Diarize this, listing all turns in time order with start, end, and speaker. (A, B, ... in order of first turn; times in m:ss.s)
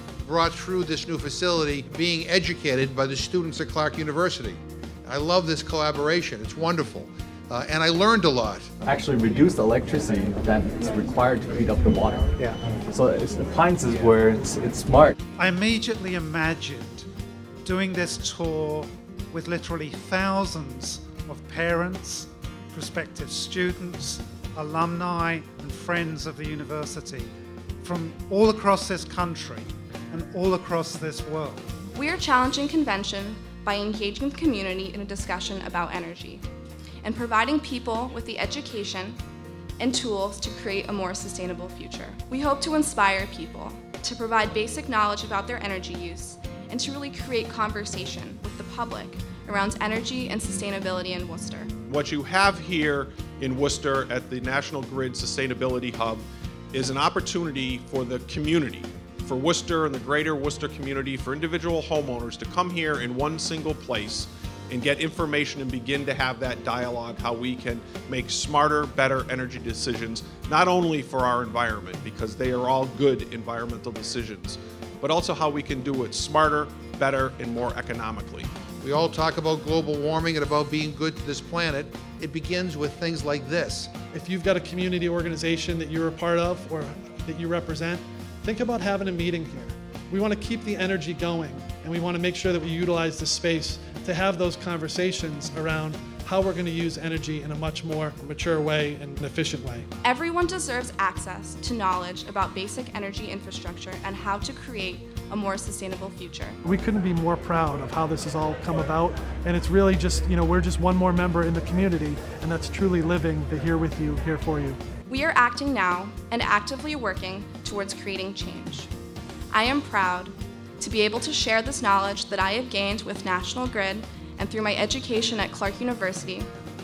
0:00.3-0:08.7 A
0:08.8-0:15.2 B
0:15.4-0:17.1 C
0:17.6-0:31.7 C
0:31.9-0:36.4 D
0:37.0-0:39.2 D
0:39.8-0:51.7 D
0:51.9-1:18.5 E
1:18.8-1:23.9 A
1:24.1-1:39.9 F
1:40.0-1:46.6 D
1:46.6-1:54.8 F
1:55.1-1:58.9 D
1:59.5-2:06.5 D